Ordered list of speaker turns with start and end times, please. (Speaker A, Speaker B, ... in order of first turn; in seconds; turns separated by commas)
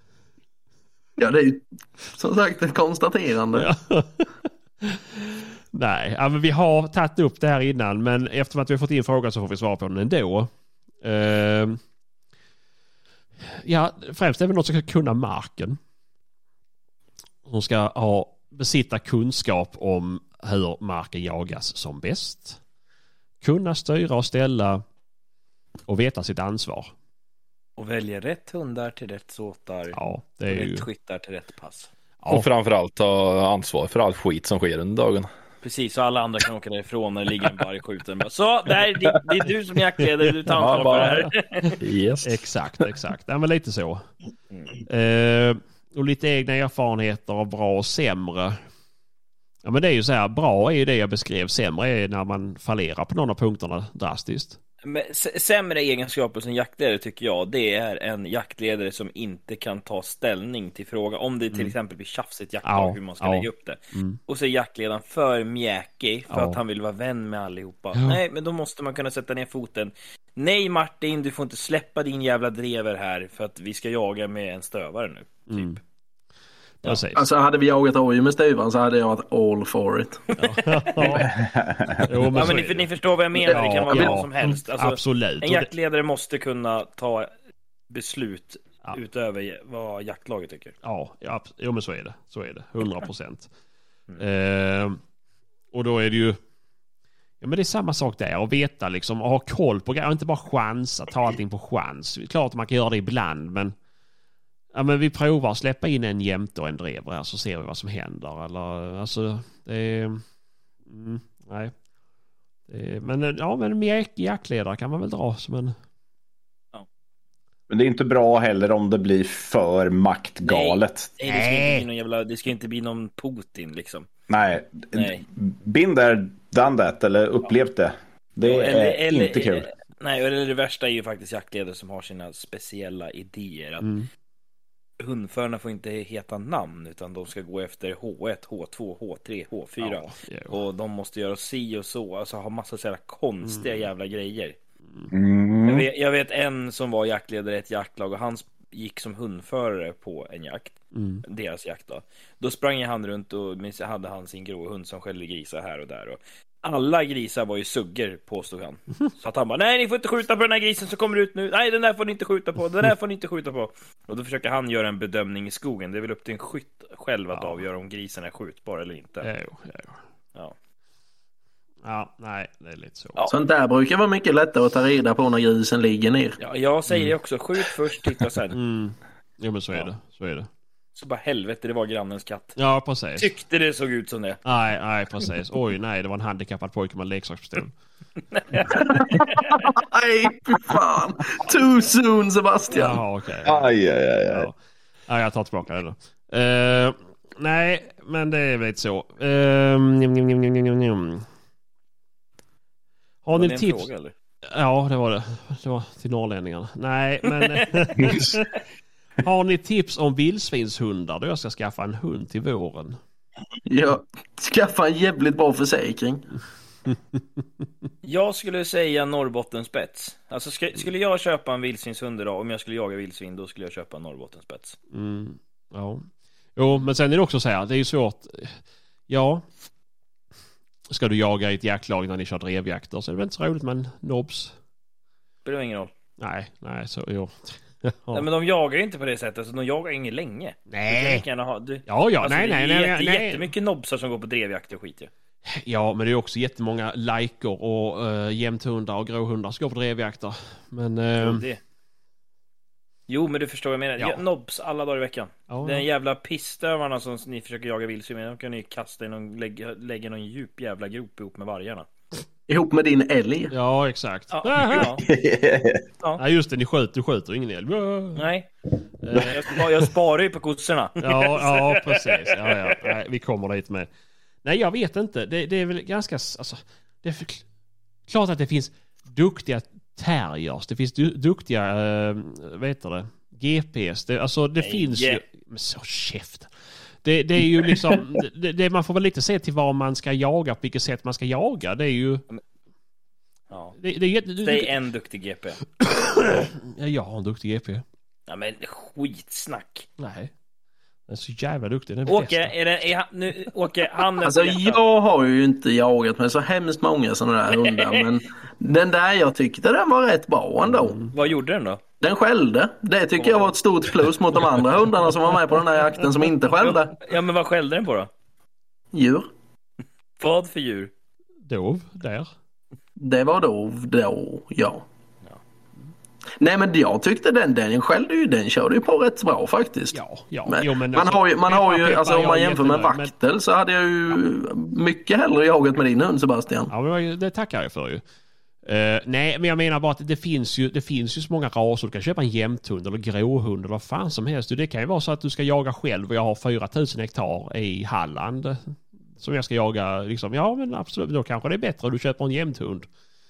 Speaker A: 1.2-3.7, Speaker B: 3.5-4.3, Speaker B: 4.8-10.5, Speaker B: 11.0-11.8, Speaker B: 13.5-15.8, Speaker B: 17.4-22.6, Speaker B: 23.4-24.8, Speaker B: 25.9-26.9, Speaker C: 27.8-31.9, Speaker B: 29.9-30.9, Speaker B: 32.2-32.5, Speaker D: 32.3-35.3, Speaker C: 35.6-41.7, Speaker D: 40.5-41.2, Speaker B: 40.7-41.2, Speaker D: 41.8-42.4, Speaker B: 42.2-44.1, Speaker B: 44.9-48.6, Speaker B: 49.6-54.6, Speaker C: 54.8-75.8, Speaker B: 62.6-64.2, Speaker B: 66.3-66.6, Speaker B: 67.9-68.2, Speaker B: 75.5-75.8, Speaker B: 76.8-77.3, Speaker A: 77.1-80.2, Speaker B: 80.4-81.3, Speaker C: 81.0-81.2, Speaker E: 81.2-82.1, Speaker B: 82.0-82.9, Speaker C: 82.3-87.3, Speaker B: 83.5-85.7, Speaker C: 87.9-90.8, Speaker B: 90.8-93.5, Speaker B: 94.2-95.0, Speaker B: 95.7-96.4, Speaker B: 97.4-103.7, Speaker B: 104.7-110.2, Speaker B: 110.9-111.7, Speaker B: 112.7-115.7, Speaker E: 117.7-121.1, Speaker C: 120.4-124.1, Speaker B: 121.2-121.8, Speaker E: 124.3-129.7, Speaker C: 124.9-125.2, Speaker C: 128.4-133.9, Speaker B: 133.8-134.1, Speaker C: 135.0-144.6, Speaker B: 139.8-140.6, Speaker B: 143.4-143.7, Speaker E: 145.1-145.9, Speaker C: 145.6-169.3, Speaker B: 150.9-151.2, Speaker B: 167.3-167.6, Speaker B: 169.2-170.0, Speaker B: 171.8-173.3, Speaker A: 173.3-176.4, Speaker C: 176.4-178.6, Speaker B: 178.5-180.5, Speaker C: 180.9-182.6, Speaker B: 182.6-183.3, Speaker C: 183.2-184.4, Speaker B: 184.4-187.8, Speaker C: 188.3-189.5, Speaker A: 188.7-193.0, Speaker B: 192.7-193.7, Speaker E: 193.4-194.5, Speaker B: 194.3-194.6, Speaker B: 195.1-201.3, Speaker B: 203.2-203.9, Speaker C: 203.3-204.1, Speaker B: 204.5-208.5, Speaker B: 209.2-213.0, Speaker A: 213.7-216.2, Speaker B: 216.9-217.4, Speaker C: 218.0-224.8, Speaker B: 224.9-229.4, Speaker B: 230.9-234.5, Speaker C: 235.4-235.9, Speaker B: 236.2-238.2, Speaker C: 238.1-245.1, Speaker B: 240.7-241.2, Speaker B: 241.8-243.5, Speaker B: 245.5-251.4, Speaker C: 251.2-251.6, Speaker C: 253.1-261.9, Speaker B: 255.5-255.8, Speaker A: 262.5-263.5, Speaker B: 263.5-265.0, Speaker C: 264.3-265.0, Speaker E: 265.0-265.8, Speaker B: 266.2-268.2, Speaker C: 268.1-268.5, Speaker B: 269.0-269.6, Speaker C: 269.3-272.5, Speaker B: 271.0-273.9, Speaker B: 274.4-277.4, Speaker B: 278.1-286.5, Speaker C: 284.6-285.2, Speaker B: 287.0-292.2, Speaker C: 293.5-293.8, Speaker B: 293.8-294.7, Speaker C: 294.4-295.6, Speaker B: 295.8-297.8, Speaker C: 298.3-299.9, Speaker B: 300.0-300.3, Speaker B: 301.1-302.5, Speaker C: 302.1-304.8, Speaker A: 304.2-311.0, Speaker C: 307.6-308.0, Speaker B: 310.8-311.1, Speaker C: 311.1-311.8, Speaker A: 312.0-316.9, Speaker C: 313.1-313.5, Speaker C: 316.6-318.1, Speaker A: 318.9-319.3, Speaker C: 320.2-320.9, Speaker B: 321.4-322.3, Speaker A: 323.0-324.8, Speaker A: 326.4-330.0, Speaker B: 329.9-333.1, Speaker A: 330.5-336.7, Speaker B: 336.7-338.0, Speaker B: 338.6-352.9